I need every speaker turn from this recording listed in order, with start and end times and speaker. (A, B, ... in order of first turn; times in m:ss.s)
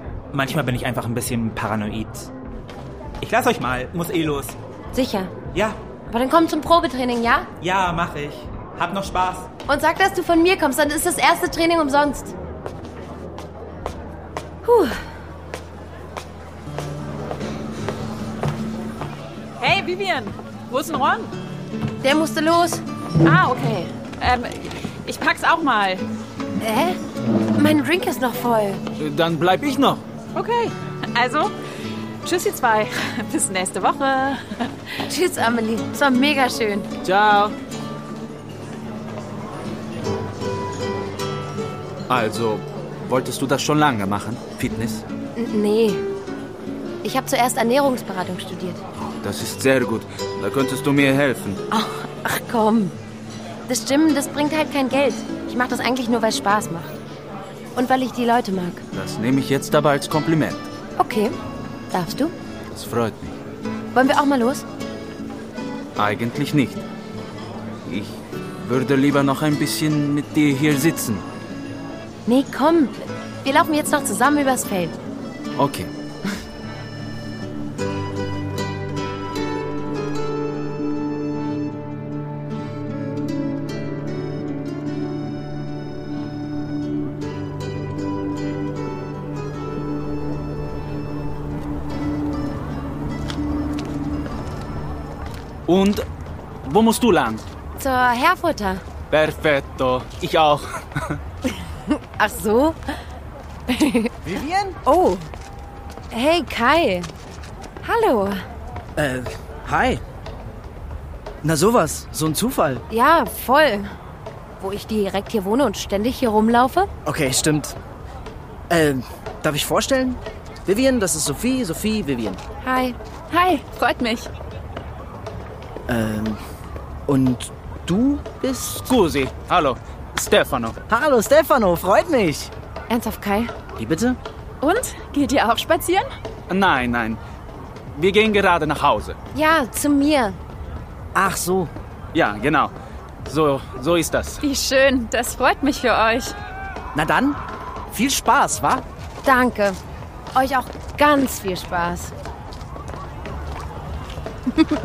0:00.3-0:02.3 A
0:03.2-0:04.6 A
0:04.9-0:05.3 B
0:06.1-0:07.5 B
0:07.6-0:09.5 A
0:09.7-0:12.3 B
0:14.6-0:15.0 B
0:19.6-0:21.3 C
0:22.0-0:22.8 B
0:23.2-0:26.0 C
0:26.6-0:27.0 B
0:27.6-0:28.8 B
0:29.0-0:30.0 D
0:30.3-0:31.5 C
0:32.2-0:34.7 C
0:35.1-0:36.9 B
0:37.0-0:37.5 D
0:42.1-0:45.0 D
0:45.4-0:46.0 B
0:47.0-0:48.8 B
0:49.0-0:51.6 D
0:51.7-0:52.9 B
0:53.7-0:57.0 B
0:57.8-0:58.8 B
0:58.9-1:00.6 D
1:01.0-1:01.4 B
1:01.9-1:02.3 B
1:02.7-1:03.4 D
1:03.9-1:04.6 B
1:06.0-1:06.8 D
1:07.8-1:11.2 D
1:12.2-1:14.9 B
1:15.6-1:15.9 D
1:35.7-1:36.0 D
1:36.6-1:37.4 D
1:37.8-1:38.8 B
1:39.1-1:41.2 D
1:41.9-1:43.0 B
1:43.7-1:44.2 B
1:44.2-1:44.8 E
1:44.8-1:45.3 B
1:46.1-1:47.1 B
1:47.8-1:48.4 B
1:49.0-1:50.0 E
1:51.4-1:52.8 E
1:52.9-1:54.0 B
1:54.6-1:56.9 B
1:57.0-1:57.7 E
1:58.7-2:02.4 E
2:02.6-2:03.5 B
2:03.3-2:04.3 C
2:05.9-2:06.4 E
2:07.1-2:08.8 E
2:08.8-2:10.8 D
2:10.9-2:12.5 E
2:12.9-2:13.5 B
2:13.8-2:14.2 E
2:14.6-2:16.1 C
2:16.5-2:17.2 D
2:17.9-2:19.2 D
2:19.3-2:20.4 B
2:21.1-2:21.7 E
2:22.1-2:22.7 D
2:23.2-2:24.4 D
2:24.4-2:26.4 C
2:26.9-2:27.4 E
2:27.9-2:28.8 E
2:29.2-2:29.8 B
2:30.3-2:32.1 B